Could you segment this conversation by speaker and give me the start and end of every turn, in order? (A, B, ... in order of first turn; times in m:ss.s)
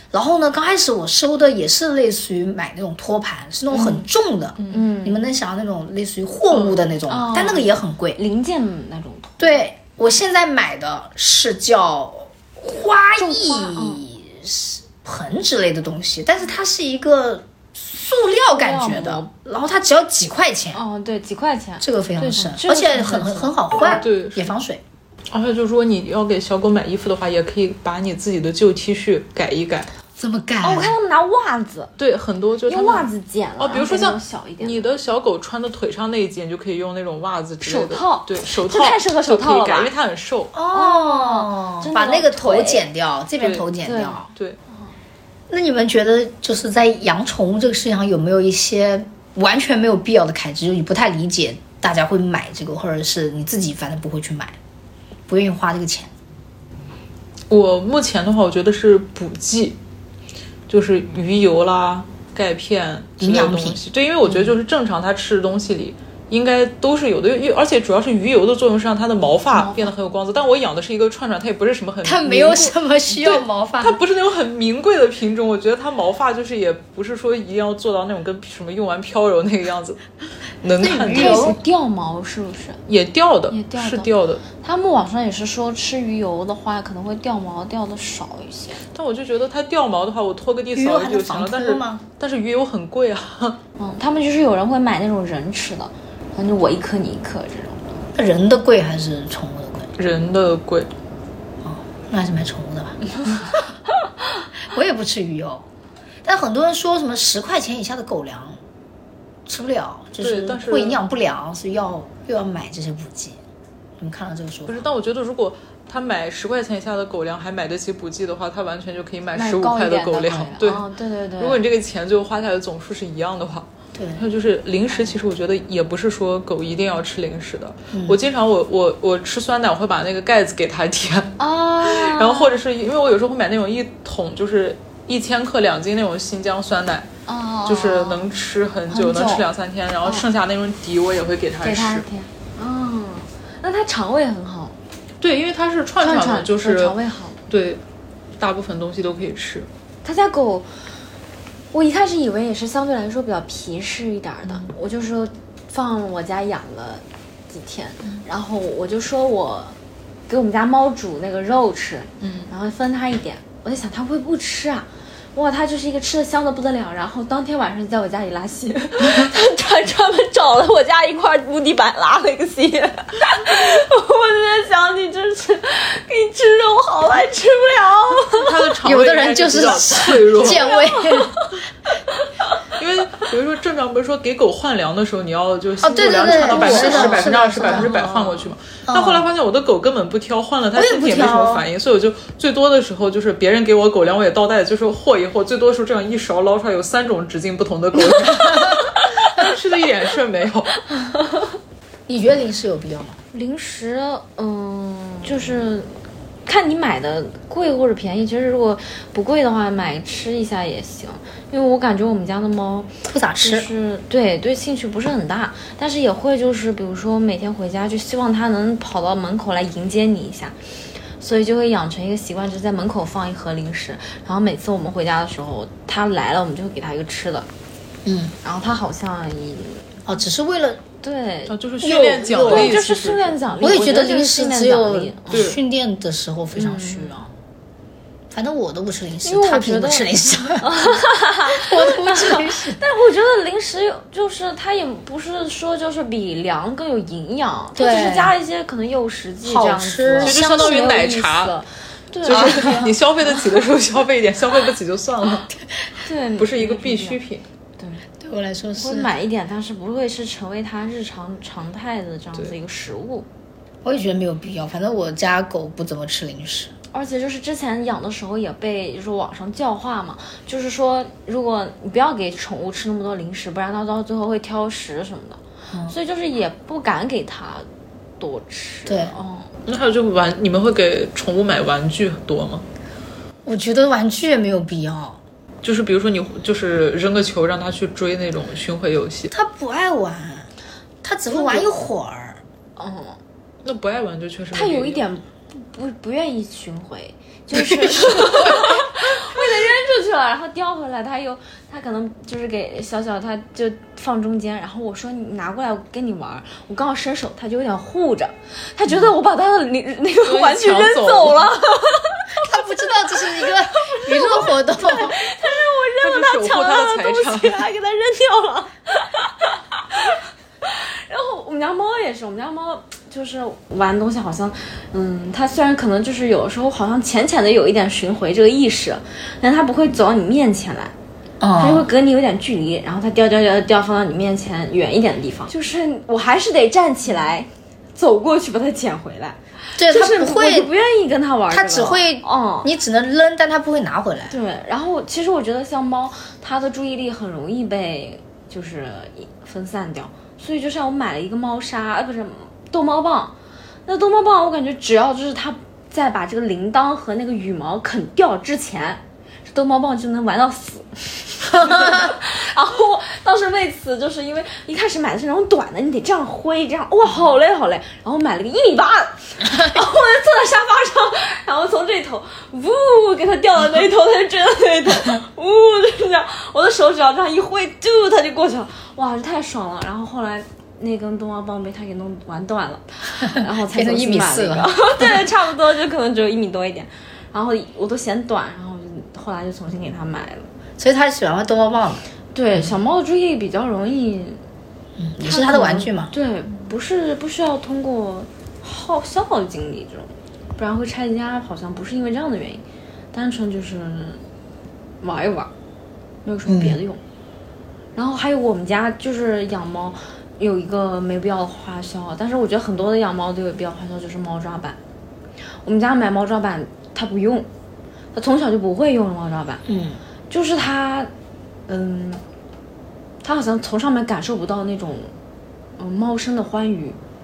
0:00.1-0:08.2 A
0:03.7-0:04.0 B
0:04.6-0:04.9 C
0:04.7-0:05.2 B
0:07.1-0:09.6 B
0:09.4-0:20.8 A
0:13.2-0:14.0 B
0:18.5-0:19.3 B
0:20.7-0:24.0 B
0:21.8-0:24.8 A
0:23.9-0:24.5 C
0:25.3-0:29.9 C
0:30.2-0:31.0 A
0:30.6-0:31.9 B
0:32.0-0:40.5 C
0:32.7-0:34.9 B
0:37.6-0:39.9 B
0:40.5-0:44.3 A
0:40.7-0:42.9 B
0:43.4-0:43.7 C
0:43.8-0:44.9 B
0:45.5-0:54.6 A
0:55.3-0:56.1 A
0:57.5-0:59.8 C
1:00.7-1:20.0 C
1:03.2-1:03.8 A
1:09.6-1:09.9 B
1:12.0-1:14.0 A
1:20.6-1:21.6 C
1:20.8-1:21.6 A
1:21.1-1:22.8 B
1:22.9-1:24.4 C
1:23.5-1:28.8 B
1:28.9-1:33.6 C
1:30.8-1:32.0 A
1:33.8-1:37.8 B
1:38.2-1:39.9 A
1:40.0-1:40.9 C
1:41.6-1:43.4 A
1:44.7-1:45.6 A
1:46.2-1:48.6 A
1:49.5-1:53.4 A
1:50.2-1:51.0 C
1:54.0-1:54.9 A
1:54.7-2:00.9 C
1:59.4-2:01.6 B
2:01.4-2:17.1 C
2:04.0-2:04.2 A
2:07.9-2:08.2 A
2:11.4-2:12.6 B
2:17.3-2:18.2 B
2:17.7-2:22.0 C
2:18.9-2:19.4 B
2:21.6-2:24.8 B
2:25.2-2:27.0 C
2:26.0-2:27.4 B
2:27.5-2:27.8 C
2:28.4-2:29.7 C
2:30.0-2:30.7 B
2:31.7-2:39.8 B
2:40.3-2:58.5 B
2:42.2-2:42.5 C
2:58.3-3:00.7 C
2:58.8-3:01.4 A
3:00.4-3:01.6 B
3:02.1-3:02.6 B
3:02.8-3:20.8 C
3:05.8-3:09.3 A
3:05.9-3:08.2 B
3:10.8-3:11.6 A
3:18.0-3:18.8 A
3:21.0-3:21.4 B
3:22.1-3:23.2 A
3:23.3-3:25.9 B
3:26.5-3:40.6 B
3:33.1-3:33.7 A
3:41.2-3:47.5 B
3:48.0-3:48.4 A
3:48.4-3:49.9 B
3:50.1-3:50.8 A
3:51.0-3:51.6 B
3:51.5-3:53.6 C
3:51.8-3:52.8 A
3:52.3-3:55.6 B
3:53.6-3:57.3 A
3:55.3-3:55.6 C
3:56.5-3:57.2 B
3:58.3-4:01.0 A
3:59.2-4:13.0 B
4:01.5-4:02.8 A
4:07.8-4:08.3 A
4:09.4-4:11.0 A
4:10.2-4:11.6 C
4:12.2-4:15.5 C
4:12.3-4:12.8 A
4:16.0-4:17.2 B
4:16.4-4:17.4 C
4:17.8-4:18.1 B
4:18.2-4:19.1 A
4:18.8-4:23.3 B
4:23.8-4:26.7 A
4:26.9-4:37.7 B
4:38.2-4:39.5 B
4:38.9-4:39.1 A
4:39.7-4:42.6 C
4:43.4-4:45.2 A
4:45.6-4:49.3 C
4:49.3-4:50.5 A
4:51.0-4:52.4 A
4:51.3-4:51.7 B
4:52.8-4:53.2 B
4:53.6-4:55.0 C
4:54.5-5:12.4 B
4:57.5-4:58.6 A
5:10.3-5:11.5 C
5:12.4-5:15.2 A
5:13.4-5:30.9 B
5:16.0-5:17.7 C
5:31.4-5:31.9 A
5:31.6-5:42.7 B
5:39.8-5:40.7 A
5:41.5-5:44.4 A
5:44.3-5:53.3 B
5:53.9-6:30.5 B
6:01.7-6:02.0 A
6:23.3-6:25.2 A
6:30.8-6:32.0 A
6:32.3-6:34.4 B
6:35.0-6:36.1 A
6:35.2-6:44.2 B
6:45.0-6:45.5 B
6:46.2-6:47.0 B
6:46.5-6:46.8 A
6:48.0-6:54.8 B
6:55.6-6:57.5 B
6:58.1-6:59.6 B
6:59.7-7:00.0 A
7:00.3-7:01.1 B
7:01.7-7:02.2 B
7:03.2-7:05.1 B
7:05.8-7:07.0 B